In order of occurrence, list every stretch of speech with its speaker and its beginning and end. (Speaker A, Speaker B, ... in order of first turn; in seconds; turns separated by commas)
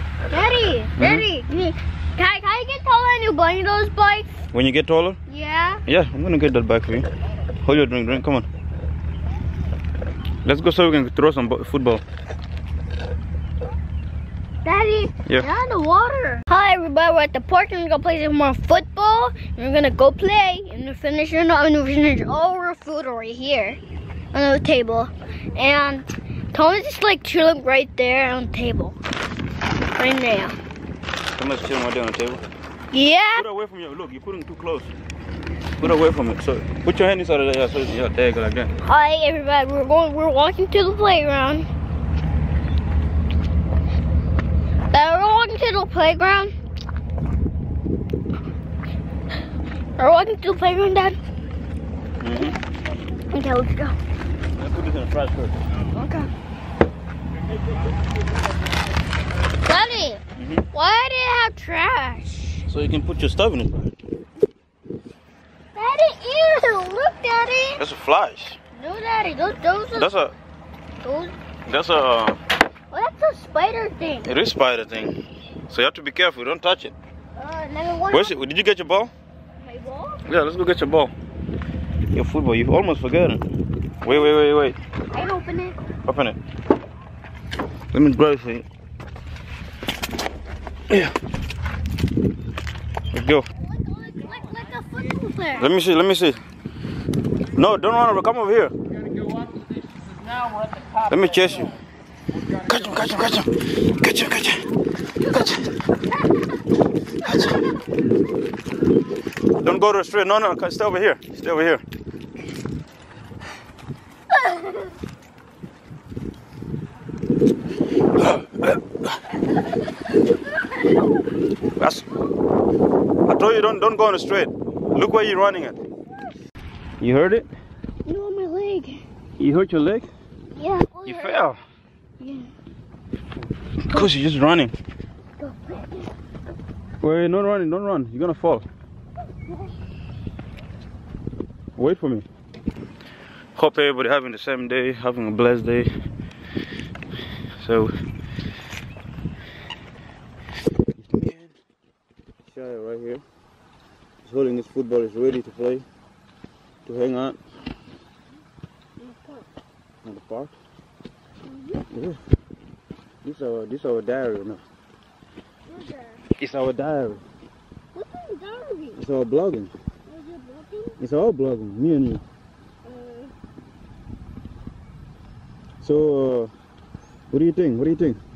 Speaker A: 0.3-4.3, Speaker B: 1.0-1.2, Speaker B: 4.5-5.2, Speaker A: 5.3-5.8, Speaker B: 5.9-7.1, Speaker B: 7.6-8.5, Speaker B: 10.4-12.0, Speaker A: 14.6-23.8, Speaker A: 24.3-29.0, Speaker A: 29.9-30.6, Speaker B: 31.4-32.5, Speaker A: 32.9-33.5, Speaker B: 33.4-34.9, Speaker B: 35.8-38.8, Speaker A: 38.8-41.7, Speaker A: 44.9-46.5, Speaker A: 50.0-51.2, Speaker B: 52.2-52.6, Speaker A: 53.3-54.0, Speaker B: 54.6-55.5, Speaker A: 55.9-56.3, Speaker A: 59.6-62.7, Speaker B: 60.4-60.6, Speaker B: 62.7-64.0, Speaker A: 65.8-67.8, Speaker B: 67.8-68.6, Speaker A: 68.7-70.1, Speaker B: 69.9-70.3, Speaker A: 71.0-71.3, Speaker B: 71.7-72.4, Speaker A: 72.9-74.3, Speaker B: 74.3-77.0, Speaker A: 77.3-78.3, Speaker B: 78.1-79.1, Speaker A: 79.6-80.2, Speaker B: 80.2-81.1, Speaker B: 82.1-83.4, Speaker B: 84.0-84.8, Speaker A: 85.1-85.8, Speaker B: 86.0-86.4, Speaker B: 87.9-88.7, Speaker B: 93.1-93.5, Speaker A: 93.6-95.7, Speaker B: 95.6-96.4, Speaker B: 97.5-98.7, Speaker B: 100.8-101.8, Speaker B: 102.5-104.7, Speaker B: 105.2-105.7, Speaker B: 107.2-107.6, Speaker B: 109.5-111.8, Speaker B: 118.2-118.8, Speaker A: 120.6-121.0, Speaker B: 121.8-122.1, Speaker B: 123.2-125.8, Speaker B: 127.0-127.5, Speaker A: 128.1-129.0, Speaker B: 129.4-130.1, Speaker A: 130.5-131.5, Speaker B: 131.1-131.6, Speaker A: 132.2-132.5, Speaker B: 133.8-134.7, Speaker A: 135.4-136.2, Speaker B: 137.0-138.7, Speaker B: 141.8-142.3, Speaker B: 143.6-145.9, Speaker B: 147.6-147.9, Speaker B: 151.0-151.5, Speaker B: 152.5-153.2, Speaker B: 154.2-155.9, Speaker B: 156.8-157.4, Speaker A: 159.0-159.5, Speaker B: 160.0-160.6, Speaker A: 161.5-161.8, Speaker B: 161.9-162.2, Speaker B: 163.2-164.6, Speaker A: 165.7-166.2, Speaker B: 166.4-167.2, Speaker A: 167.9-169.0, Speaker B: 169.0-169.7, Speaker A: 170.1-171.0, Speaker B: 171.0-172.2, Speaker A: 172.8-173.3, Speaker B: 175.8-176.5, Speaker B: 177.3-178.2